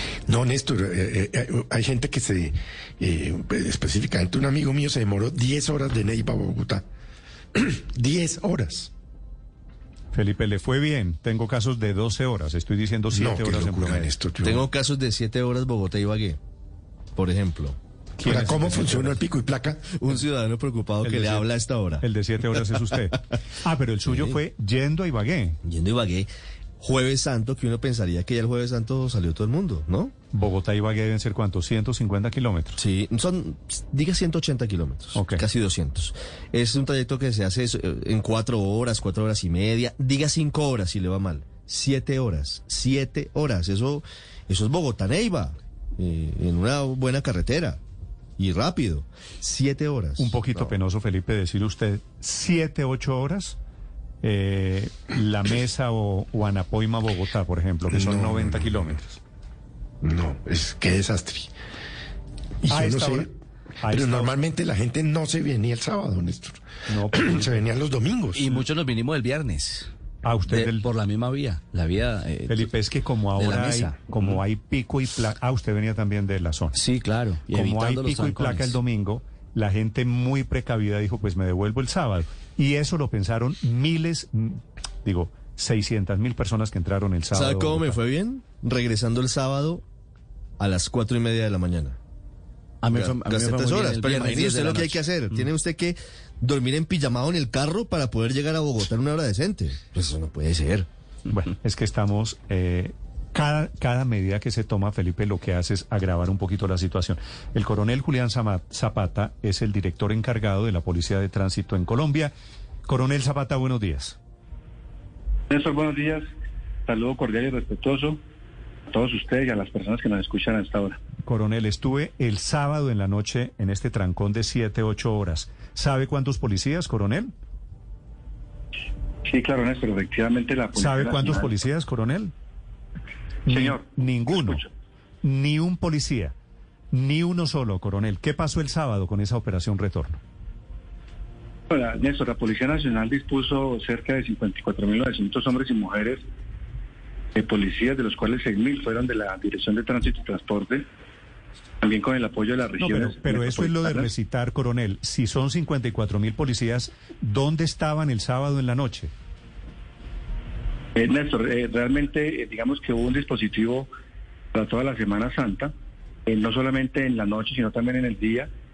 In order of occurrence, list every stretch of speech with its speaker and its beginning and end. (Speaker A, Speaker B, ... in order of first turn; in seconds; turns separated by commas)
Speaker A: 0.3-6.8, Speaker A: 7.5-8.9, Speaker B: 10.1-14.1, Speaker A: 13.1-14.7, Speaker C: 14.4-16.4, Speaker C: 17.2-17.8, Speaker B: 18.2-19.2, Speaker A: 18.2-19.9, Speaker C: 19.9-22.0, Speaker B: 21.0-21.5, Speaker B: 22.0-25.6, Speaker C: 22.6-22.9, Speaker C: 24.1-24.4, Speaker C: 25.6-26.3, Speaker C: 26.8-30.1, Speaker B: 30.3-32.8, Speaker C: 32.8-47.8, Speaker B: 35.1-35.4, Speaker C: 48.4-50.4, Speaker B: 50.2-53.6, Speaker B: 54.2-59.2, Speaker A: 57.9-59.0, Speaker A: 60.0-61.5, Speaker A: 62.6-63.3, Speaker B: 62.7-63.3, Speaker B: 63.8-64.3, Speaker A: 63.9-68.6, Speaker B: 66.9-67.6, Speaker D: 68.3-69.9, Speaker B: 70.2-70.8, Speaker D: 70.5-72.7, Speaker B: 72.5-76.8, Speaker D: 73.4-74.4, Speaker D: 76.8-78.8, Speaker B: 77.5-88.0, Speaker C: 87.3-89.8, Speaker C: 90.6-92.0, Speaker D: 92.8-95.4, Speaker C: 92.9-100.9, Speaker B: 101.3-112.3, Speaker B: 112.9-114.2, Speaker E: 115.5-116.2, Speaker E: 116.9-118.2, Speaker E: 118.9-121.0, Speaker B: 121.2-127.3, Speaker E: 129.3-131.6, Speaker B: 130.8-132.3, Speaker B: 133.5-134.6, Speaker E: 133.5-134.7, Speaker B: 135.2-136.3, Speaker B: 136.9-140.2, Speaker E: 141.7-146.2, Speaker E: 147.3-150.8, Speaker E: 151.8-154.1, Speaker B: 152.8-159.1, Speaker E: 161.0-163.9, Speaker E: 164.5-165.7, Speaker E: 166.3-168.5